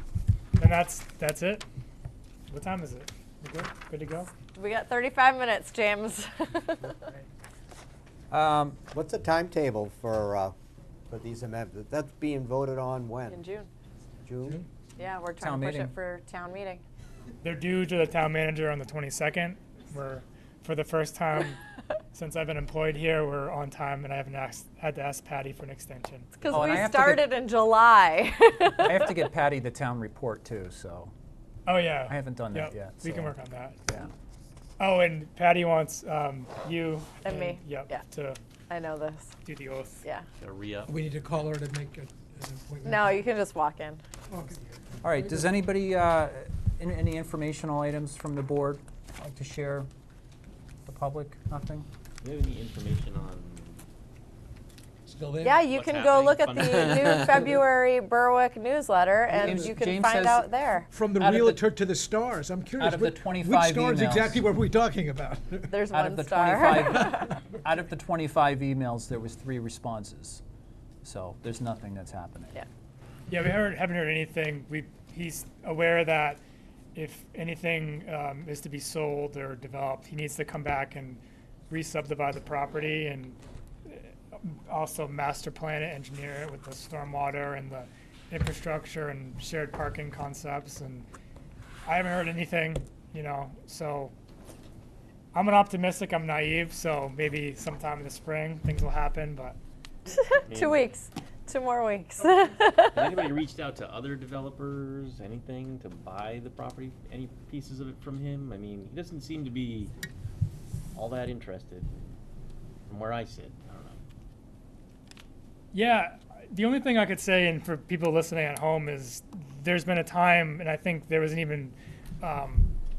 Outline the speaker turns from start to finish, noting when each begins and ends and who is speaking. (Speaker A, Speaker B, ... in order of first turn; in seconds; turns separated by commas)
Speaker A: 0.6-1.6, Speaker A: 2.5-4.3, Speaker B: 4.5-7.1, Speaker C: 8.3-8.8, Speaker D: 8.9-10.6, Speaker D: 11.1-13.4, Speaker B: 13.3-13.7, Speaker D: 14.2-14.6, Speaker B: 15.0-16.8, Speaker C: 15.4-15.9, Speaker A: 17.4-21.6, Speaker A: 22.1-26.7, Speaker B: 26.4-29.1, Speaker C: 26.5-27.3, Speaker C: 28.8-31.1, Speaker A: 31.7-33.8, Speaker C: 32.1-33.4, Speaker A: 34.8-38.4, Speaker B: 37.2-38.0, Speaker B: 38.7-39.4, Speaker A: 39.5-40.0, Speaker E: 40.4-40.9, Speaker F: 40.9-43.2, Speaker B: 42.9-44.0, Speaker F: 44.3-45.5, Speaker C: 45.0-49.9, Speaker C: 50.9-51.9, Speaker E: 52.2-53.9, Speaker F: 55.1-55.6, Speaker B: 55.4-60.9, Speaker E: 55.6-57.6, Speaker C: 59.3-60.5, Speaker F: 59.4-59.7, Speaker F: 60.9-65.7, Speaker C: 61.2-61.6, Speaker C: 62.8-64.4, Speaker B: 65.7-67.3, Speaker C: 65.9-70.4, Speaker C: 71.0-72.6, Speaker A: 73.3-76.4, Speaker A: 77.0-91.1, Speaker A: 91.8-94.1, Speaker A: 95.3-99.6, Speaker B: 100.1-103.3, Speaker E: 100.4-100.9, Speaker E: 102.9-109.9, Speaker E: 110.9-112.2, Speaker E: 112.9-114.0, Speaker A: 115.7-122.7